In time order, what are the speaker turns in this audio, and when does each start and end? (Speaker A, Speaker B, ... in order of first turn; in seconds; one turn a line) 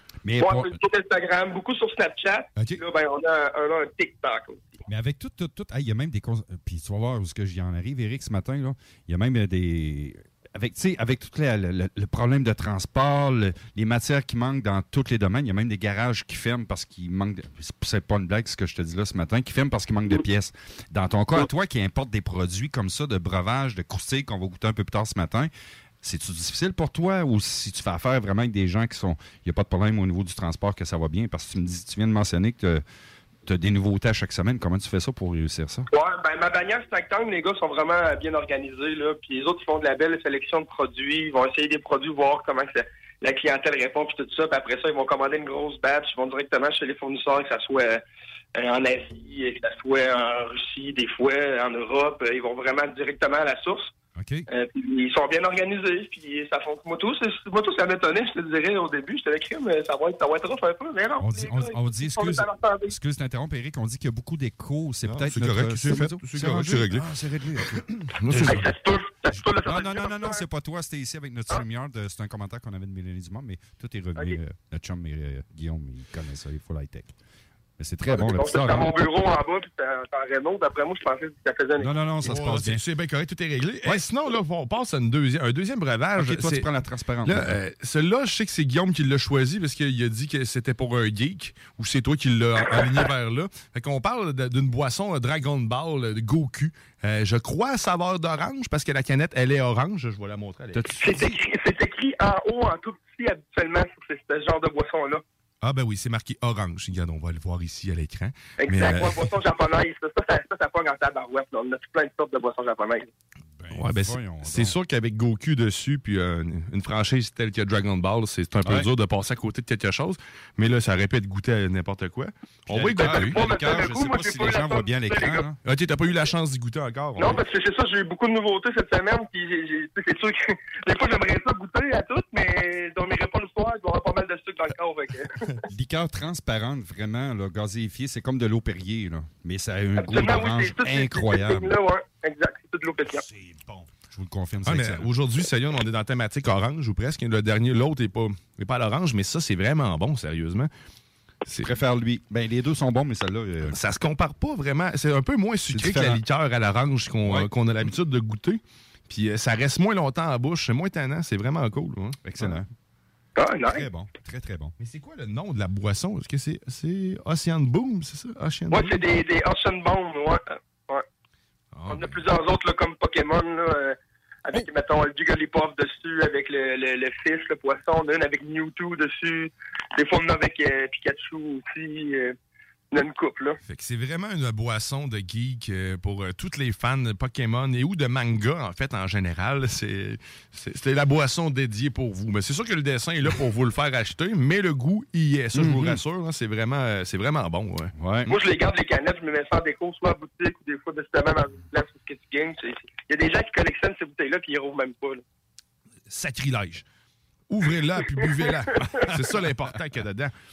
Speaker A: 0.2-0.8
Speaker B: 0.4-4.8
Speaker A: 4.9-25.5
Speaker A: 26.0-32.8
Speaker A: 33.5-35.9
Speaker B: 35.9-48.0
Speaker B: 48.5-53.9
Speaker A: 54.1-54.5
Speaker B: 54.5-63.0
Speaker A: 61.2-68.7
Speaker C: 65.0-68.7
Speaker B: 68.4-70.4
Speaker A: 69.3-77.1
Speaker A: 77.8-78.9
Speaker B: 78.1-81.9
Speaker A: 81.8-82.8
Speaker C: 82.2-86.7
Speaker A: 86.2-87.6
Speaker C: 87.2-100.9
Speaker A: 100.7-101.4
Speaker B: 101.0-105.2
Speaker C: 105.6-109.3
Speaker B: 108.6-113.1
Speaker A: 113.6-114.7
Speaker C: 113.7-123.4
Speaker A: 118.6-118.9
Speaker A: 122.7-125.6
Speaker B: 123.0-125.4
Speaker C: 125.6-127.4
Speaker B: 127.2-135.6
Speaker A: 135.7-141.8
Speaker B: 140.0-143.2
Speaker A: 143.1-145.1
Speaker C: 144.6-150.7
Speaker A: 151.5-153.8
Speaker C: 153.7-162.6
Speaker A: 155.7-156.2
Speaker A: 157.2-157.5
Speaker A: 162.2-162.7
Speaker B: 163.3-163.9
Speaker A: 163.7-164.7
Speaker C: 164.8-169.0
Speaker B: 168.7-171.0
Speaker C: 171.7-172.2
Speaker B: 171.9-182.3
Speaker B: 182.9-183.6
Speaker C: 183.7-197.9
Speaker A: 195.5-196.0
Speaker A: 197.9-198.3
Speaker B: 198.3-205.2
Speaker C: 206.1-206.8
Speaker C: 207.5-210.3
Speaker B: 208.8-209.1